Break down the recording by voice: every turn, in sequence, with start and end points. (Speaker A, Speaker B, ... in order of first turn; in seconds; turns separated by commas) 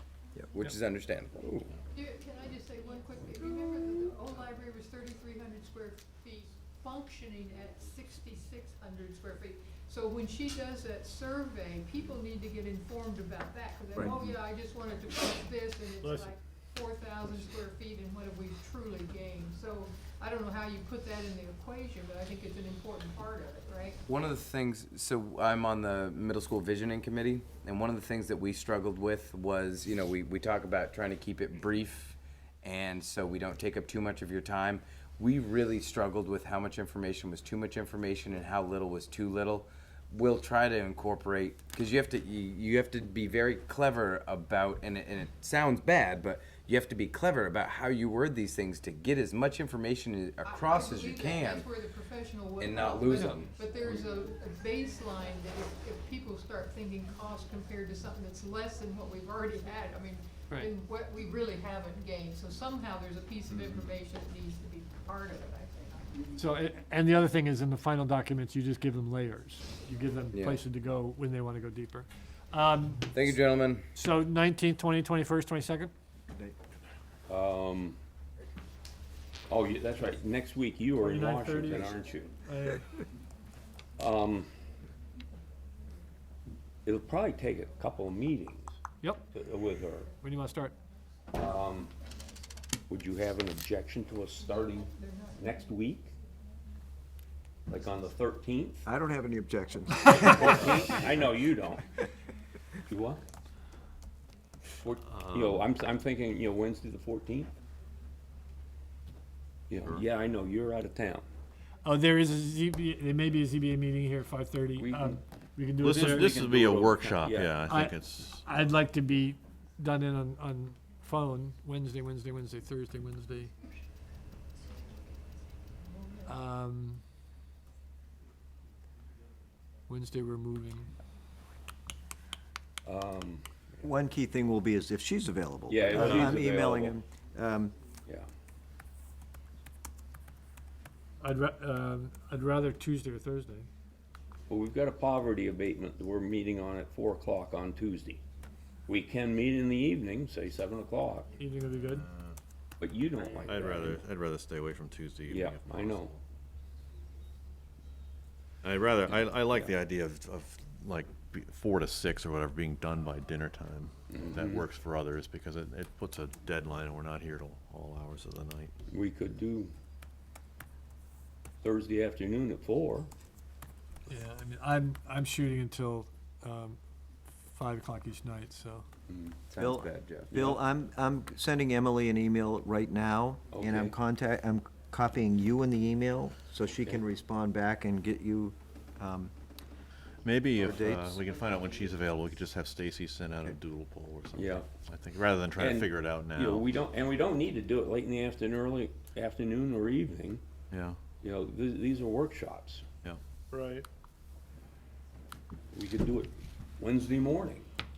Speaker A: 0.5-1.4, Speaker B: 1.4-1.7, Speaker C: 1.9-24.0, Speaker D: 16.0-16.3, Speaker A: 24.1-51.6, Speaker C: 50.4-66.2, Speaker A: 52.6-53.5, Speaker D: 53.2-53.5, Speaker B: 63.5-63.9, Speaker D: 66.3-73.1, Speaker A: 70.3-70.6, Speaker A: 73.1-73.8, Speaker D: 73.9-75.9, Speaker B: 77.3-78.0, Speaker B: 79.5-82.3, Speaker D: 81.0-82.8, Speaker B: 84.0-84.5, Speaker B: 86.8-88.8, Speaker D: 89.0-89.2, Speaker B: 89.3-90.1, Speaker D: 90.2-90.7, Speaker B: 91.3-91.9, Speaker B: 92.9-96.1, Speaker C: 94.9-95.5, Speaker B: 97.7-98.8, Speaker E: 98.8-101.0, Speaker B: 100.2-101.8, Speaker B: 102.9-103.2, Speaker B: 104.8-107.5, Speaker F: 105.1-105.6, Speaker B: 109.7-111.2, Speaker D: 111.8-116.4, Speaker B: 114.8-117.6, Speaker F: 115.8-118.4, Speaker D: 117.6-123.5, Speaker D: 126.2-127.0, Speaker D: 129.9-130.9, Speaker B: 132.8-133.8, Speaker E: 133.8-137.7, Speaker B: 135.7-137.0, Speaker D: 136.0-136.3, Speaker D: 141.2-143.7, Speaker B: 144.5-148.2, Speaker B: 148.9-151.3, Speaker D: 151.3-152.1, Speaker F: 151.8-152.3, Speaker B: 152.8-154.0, Speaker F: 153.4-156.2, Speaker B: 155.3-156.1, Speaker F: 158.6-168.7, Speaker B: 164.1-164.6, Speaker B: 168.9-169.7, Speaker B: 171.6-173.1, Speaker D: 174.1-176.8, Speaker D: 177.5-178.8, Speaker B: 179.1-179.3, Speaker A: 179.5-180.3, Speaker E: 179.6-189.3, Speaker B: 180.3-180.6, Speaker B: 183.5-183.9, Speaker F: 190.2-196.7, Speaker E: 190.6-191.2, Speaker B: 194.3-194.7, Speaker B: 195.6-200.4, Speaker F: 200.7-201.0, Speaker B: 201.2-202.8, Speaker D: 203.5-203.8, Speaker B: 205.7-207.7